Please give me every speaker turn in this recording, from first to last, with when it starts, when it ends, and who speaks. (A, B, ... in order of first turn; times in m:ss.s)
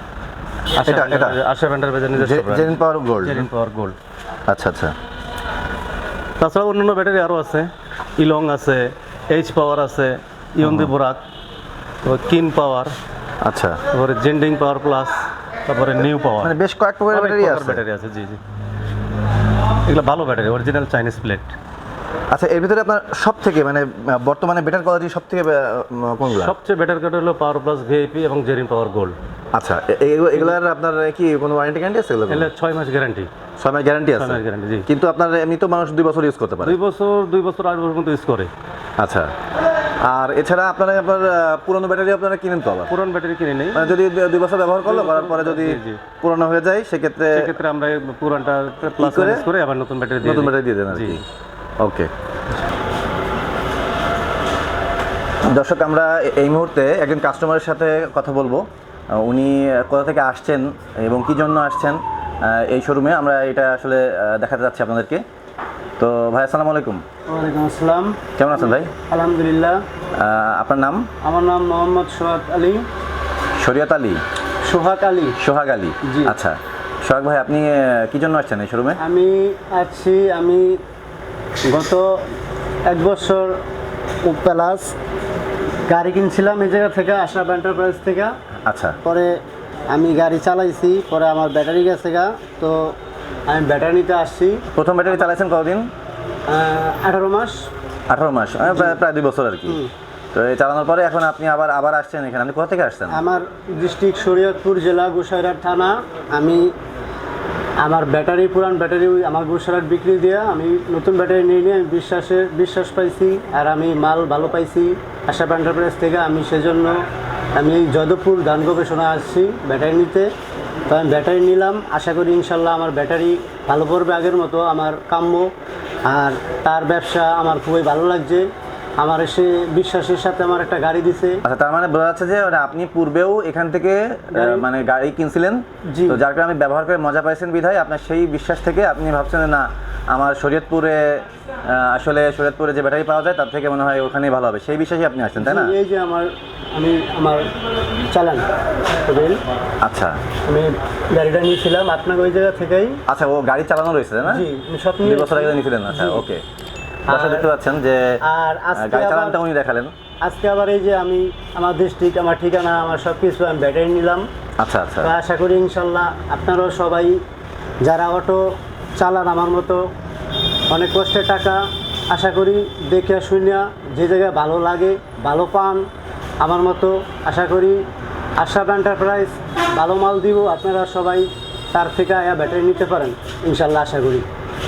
0:00.7-0:01.4 A
0:00.8-0:04.0 B
0:02.2-0:03.5 A
0:04.5-0:05.0 A
0:06.4-0:11.2 B
0:10.6-0:10.9 A
0:12.0-0:12.9 B
0:13.4-0:13.8 A
0:13.9-0:16.5 B
0:16.4-0:17.8 A
0:17.1-0:18.4 B
0:19.9-0:21.6 B
0:22.3-0:26.6 A
0:26.2-0:29.2 B
0:29.5-0:32.5 A
0:32.3-0:33.3 B
0:33.6-0:36.8 A
0:34.2-0:34.9 B
0:36.6-0:38.5 B
0:39.0-0:39.3 A
0:40.0-0:42.9 A
0:42.9-0:43.9 B
0:43.7-0:47.5 A
0:44.8-0:46.0 B
0:47.3-0:51.2 B
0:49.0-0:49.5 A
0:50.2-0:51.2 A
0:51.8-0:52.1 A
0:55.5-1:05.2 A
1:06.0-1:07.0 A
1:07.3-1:08.2 C
1:08.4-1:08.9 A
1:08.9-1:09.8 C
1:10.2-1:11.1 A
1:11.2-1:12.9 C
1:13.6-1:14.2 A
1:14.6-1:15.4 C
1:15.4-1:19.0 A
1:16.0-1:16.3 C
1:19.0-1:20.8 C
1:21.7-1:22.1 C
1:22.9-1:23.6 C
1:24.3-1:25.0 C
1:25.9-1:28.3 C
1:28.7-1:29.0 A
1:29.0-1:29.4 C
1:29.9-1:33.0 C
1:33.5-1:34.6 C
1:34.7-1:35.9 A
1:36.5-1:37.6 C
1:38.1-1:39.8 A
1:38.7-1:39.0 C
1:40.3-1:43.2 A
1:43.1-1:46.7 C
1:47.8-1:57.0 C
1:57.6-2:00.3 C
2:00.9-2:05.5 C
2:06.1-2:08.5 C
2:09.0-2:11.4 C
2:11.4-2:25.8 A
2:14.3-2:14.6 C
2:15.9-2:16.2 C
2:25.4-2:27.4 C
2:28.1-2:28.4 C
2:29.1-2:29.4 C
2:29.8-2:30.2 A
2:30.5-2:33.0 C
2:33.1-2:34.4 A
2:34.3-2:36.2 C
2:35.0-2:36.4 A
2:37.1-2:37.5 C
2:37.1-2:38.2 A
2:38.3-2:39.4 C
2:38.7-2:39.9 A
2:40.2-2:44.3 C
2:44.6-2:45.1 A
2:45.0-2:47.2 C
2:47.8-2:48.4 C
2:49.0-2:49.8 C
2:50.7-2:51.6 C
2:52.1-2:55.8 C
2:56.4-2:57.8 C
2:58.4-3:04.3 C